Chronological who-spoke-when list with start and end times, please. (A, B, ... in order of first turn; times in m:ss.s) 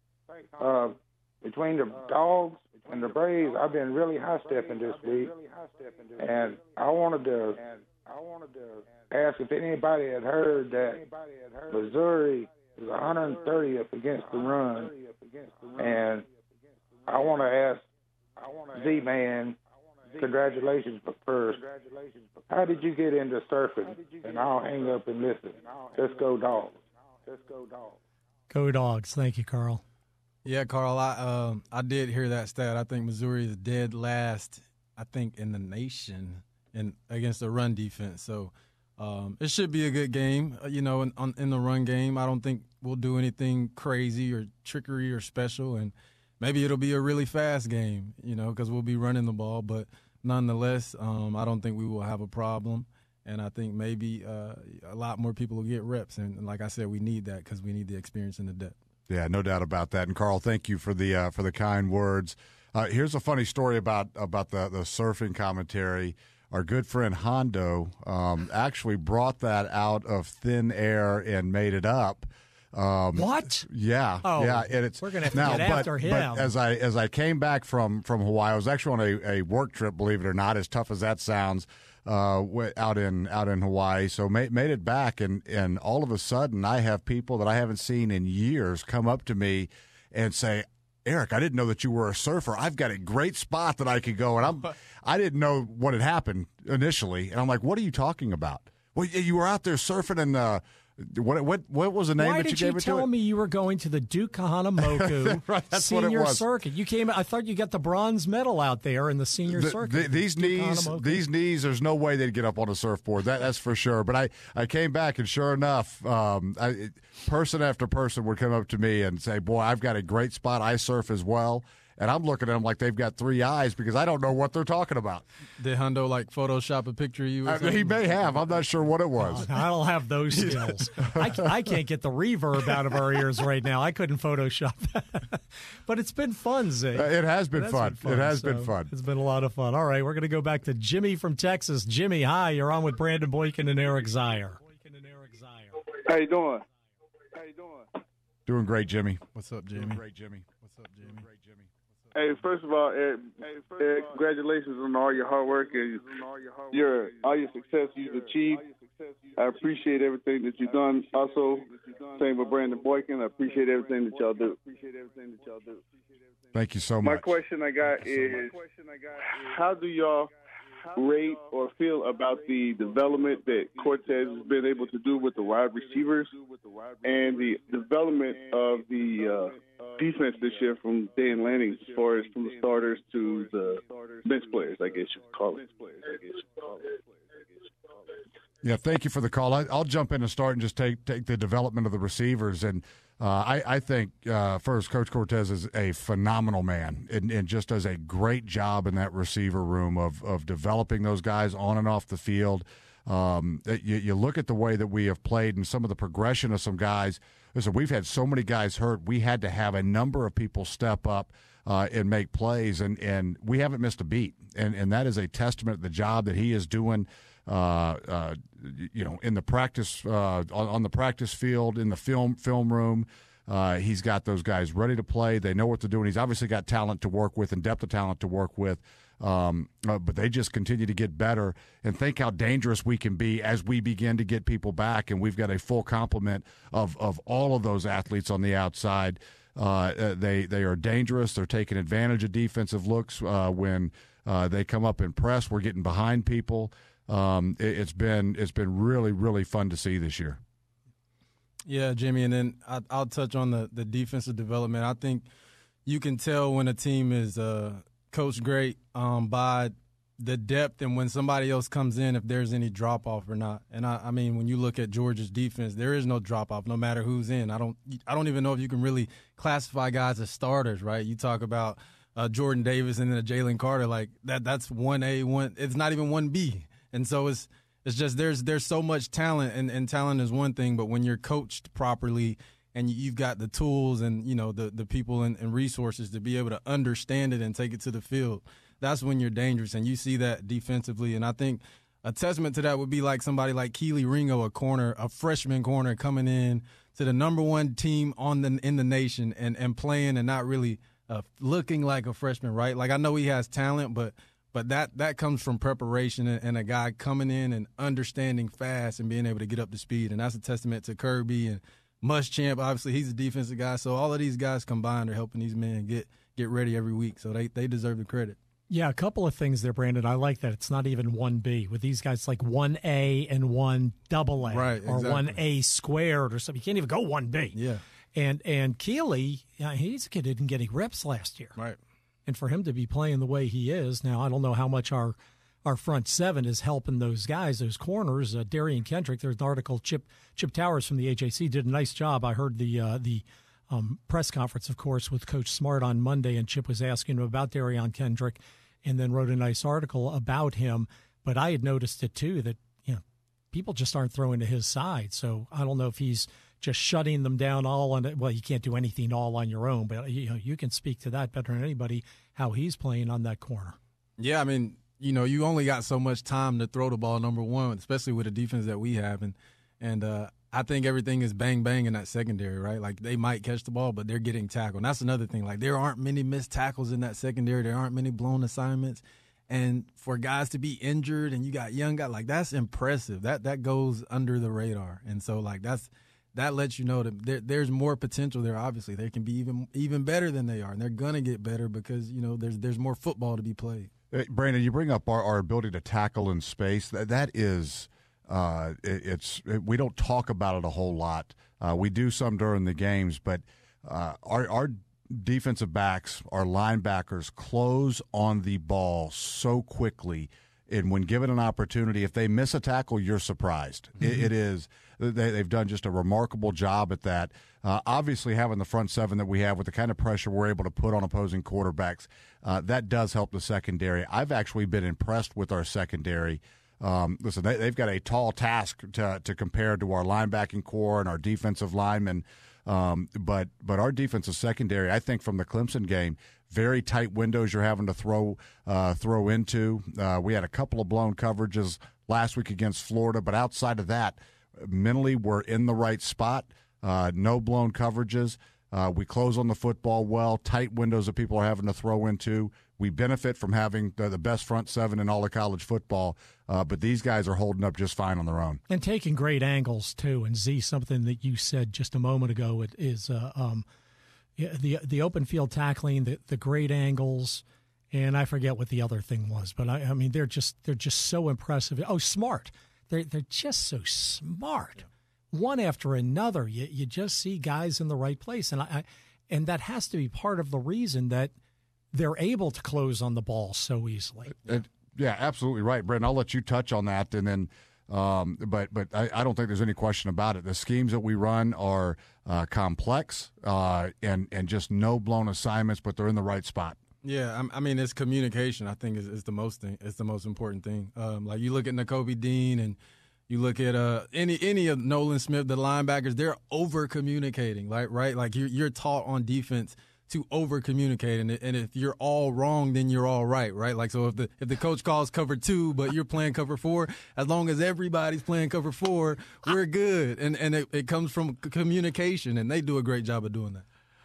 0:00.3-0:16.3 A
0:17.1-0:17.9 A
0:18.4-0:19.6 A
0:20.1-0:28.0 A
0:28.5-0:29.8 B
0:30.4-0:58.8 C
0:59.1-1:43.1 D
1:13.2-1:13.7 B
1:14.2-1:16.5 B
1:42.2-1:51.2 B
1:44.8-1:46.4 D
1:49.5-2:05.2 D
2:05.6-2:08.6 C
2:07.4-2:09.5 D
2:09.2-2:25.7 B
2:10.4-2:11.5 D
2:16.9-2:18.9 D
2:26.0-2:26.6 E
2:27.3-2:27.9 E
2:28.5-2:29.2 D
2:29.4-2:30.0 C
2:29.8-2:30.5 D
2:30.6-2:31.2 C
2:31.1-2:31.7 D
2:32.1-2:45.8 E
2:46.5-2:47.3 D
2:47.0-2:50.3 E
2:51.0-2:56.4 E
2:57.0-3:07.0 E
3:08.6-4:10.4 D
4:11.7-4:15.3 C
4:15.8-5:18.4 C
5:18.7-5:27.6 B
5:24.5-5:25.4 C
5:27.6-5:27.8 C
5:28.2-5:31.6 B
5:32.3-6:03.8 B
6:04.2-6:33.9 C
6:34.1-7:38.6 D
7:38.7-7:43.6 B
7:44.4-8:01.3 B
8:01.9-8:04.4 B
8:04.5-8:16.8 D
8:17.0-8:22.8 C
8:23.3-8:43.6 C